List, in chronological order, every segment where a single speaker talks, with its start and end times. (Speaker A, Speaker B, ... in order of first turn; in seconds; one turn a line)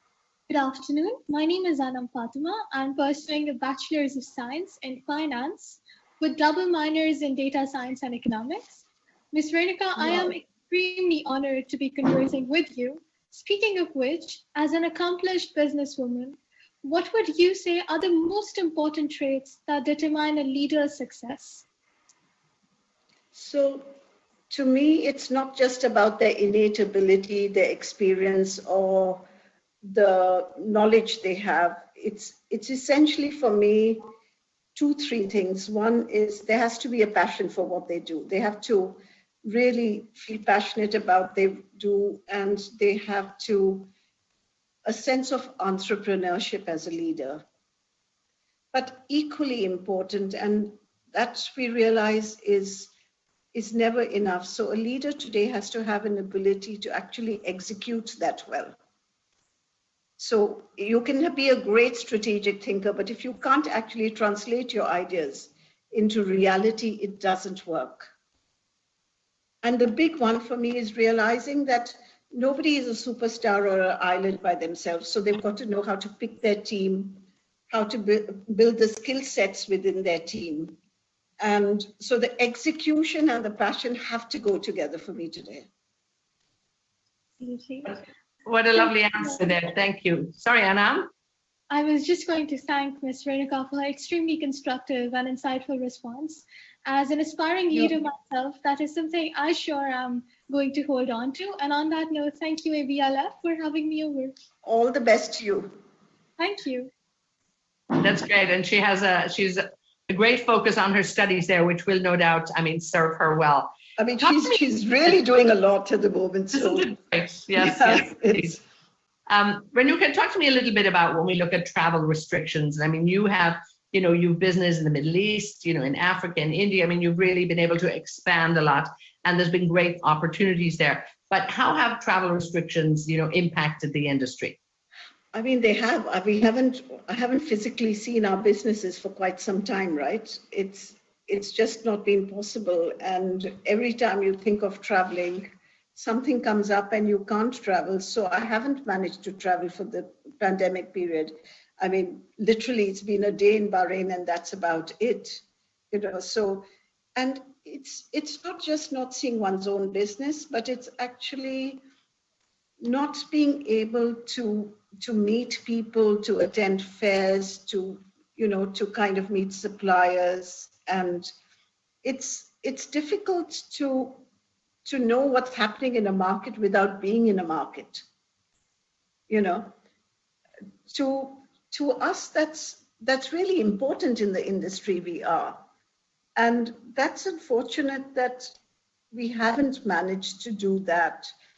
Speaker A: 0.5-21.6
Speaker B: 10.0-10.3
Speaker B: 23.3-23.9
Speaker B: 24.5-29.3
Speaker B: 29.8-34.0
Speaker B: 34.8-43.9
Speaker B: 44.9-47.4
Speaker B: 48.7-52.9
Speaker B: 53.5-58.8
Speaker B: 60.2-68.1
Speaker B: 69.6-80.8
Speaker B: 81.4-85.7
Speaker A: 87.4-88.0
Speaker C: 88.5-91.1
Speaker A: 91.7-104.4
Speaker B: 104.6-105.7
Speaker A: 106.4-106.9
Speaker C: 107.9-113.7
Speaker B: 114.0-116.9
Speaker C: 116.5-118.6
Speaker B: 117.6-118.6
Speaker C: 119.3-134.6
Speaker B: 135.3-161.8
Speaker B: 162.8-171.3
Speaker B: 172.0-174.2
Speaker B: 174.8-178.1
Speaker B: 179.3-179.7
Speaker B: 180.9-185.6
Speaker B: 186.4-188.6
Speaker B: 189.1-191.3